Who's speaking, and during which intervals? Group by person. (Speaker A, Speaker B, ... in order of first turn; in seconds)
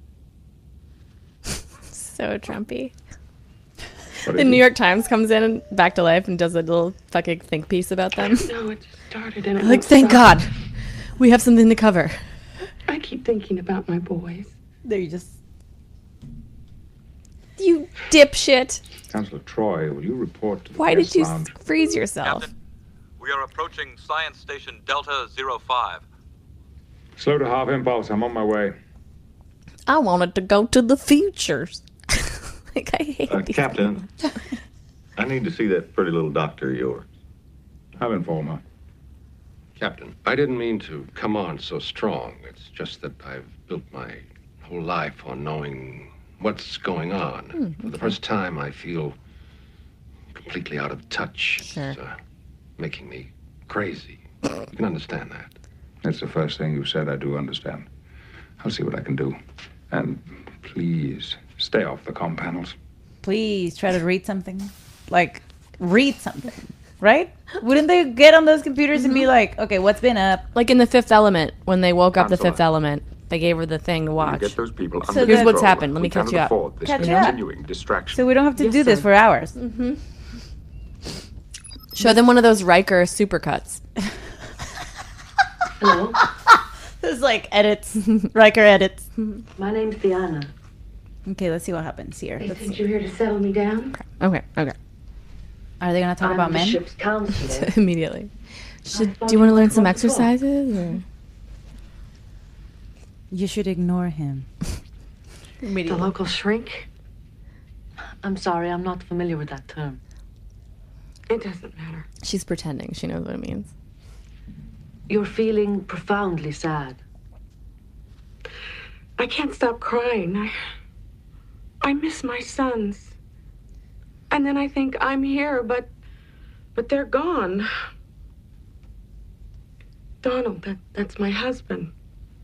Speaker A: 1.9-2.9, 4.3-8.5, 9.6-12.2, 17.6-18.8, 20.8-22.4, 29.9-33.8, 47.6-48.1, 51.6-52.0, 70.5-74.6, 75.1-77.3, 79.5-80.0, 81.9-83.8, 94.0-94.8, 97.5-98.3, 98.8-101.0, 112.2-113.7
Speaker B: 4.2-4.6, 19.1-21.5, 27.2-28.7, 38.0-38.6, 56.0-57.9, 58.6-59.4, 59.9-62.7, 72.2-72.6, 74.2-78.2
Speaker C: 8.2-10.4, 12.9-14.5, 92.4-94.0, 105.9-106.9, 111.3-112.1, 119.2-120.5, 121.8-123.1, 124.3-125.9, 126.7-127.7, 130.2-131.9
Speaker D: 14.8-15.3, 63.2-70.5, 75.1-75.6, 76.8-77.4, 78.1-79.5, 87.0-89.1, 91.2-92.8, 95.8-96.8, 103.3-104.5, 105.7-106.1
Speaker E: 22.2-22.5, 23.2-26.0
Speaker F: 33.3-34.1, 35.2-37.0
Speaker G: 39.8-49.1, 50.3-52.1, 52.8-55.5
Speaker H: 78.6-79.0, 85.8-86.2, 89.5-90.5, 96.2-97.7, 98.9-100.3, 108.2-110.0, 115.1-117.0